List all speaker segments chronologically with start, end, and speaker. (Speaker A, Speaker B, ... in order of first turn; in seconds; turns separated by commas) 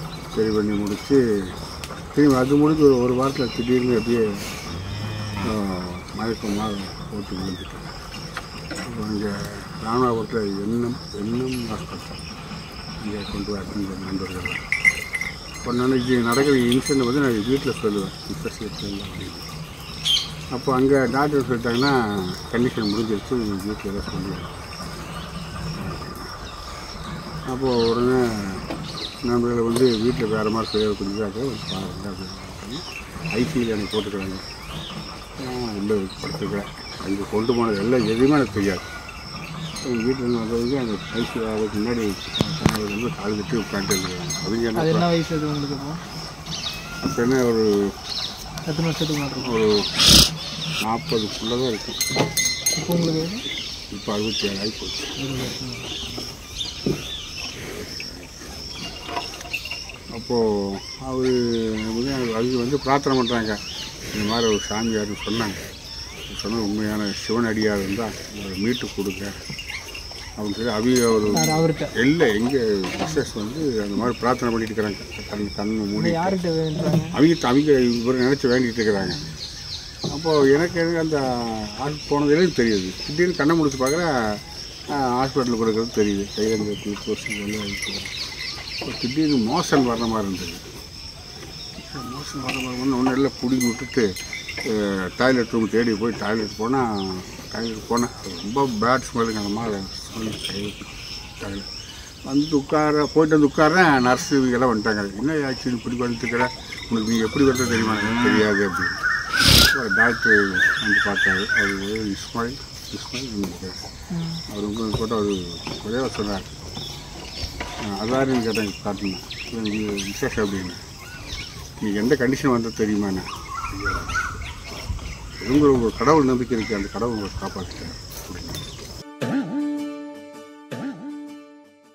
Speaker A: 0.3-1.5, Speaker A: 2.1-4.4, Speaker A: 5.4-7.9, Speaker A: 8.8-12.2, Speaker A: 13.0-14.6, Speaker A: 15.6-19.4, Speaker A: 20.5-24.7, Speaker A: 25.8-26.3, Speaker A: 27.5-28.7, Speaker A: 29.2-34.4, Speaker A: 35.4-38.9, Speaker A: 39.9-45.1, Speaker B: 44.7-46.0, Speaker A: 47.0-47.9, Speaker B: 48.7-49.6, Speaker A: 49.4-49.9, Speaker A: 50.8-52.0, Speaker B: 52.7-53.4, Speaker A: 53.9-55.1, Speaker B: 55.2-56.3, Speaker A: 60.1-63.6, Speaker A: 64.1-65.6, Speaker A: 66.3-69.3, Speaker A: 70.4-76.4, Speaker B: 71.3-71.9, Speaker B: 76.0-77.2, Speaker A: 77.1-79.2, Speaker A: 80.1-84.4, Speaker A: 84.9-88.1, Speaker A: 88.8-90.6, Speaker A: 91.8-94.1, Speaker A: 94.6-101.7, Speaker A: 102.3-109.0, Speaker A: 109.7-113.8, Speaker B: 114.1-114.4, Speaker A: 114.5-116.5, Speaker A: 117.8-120.8, Speaker A: 121.8-124.4, Speaker A: 125.4-128.7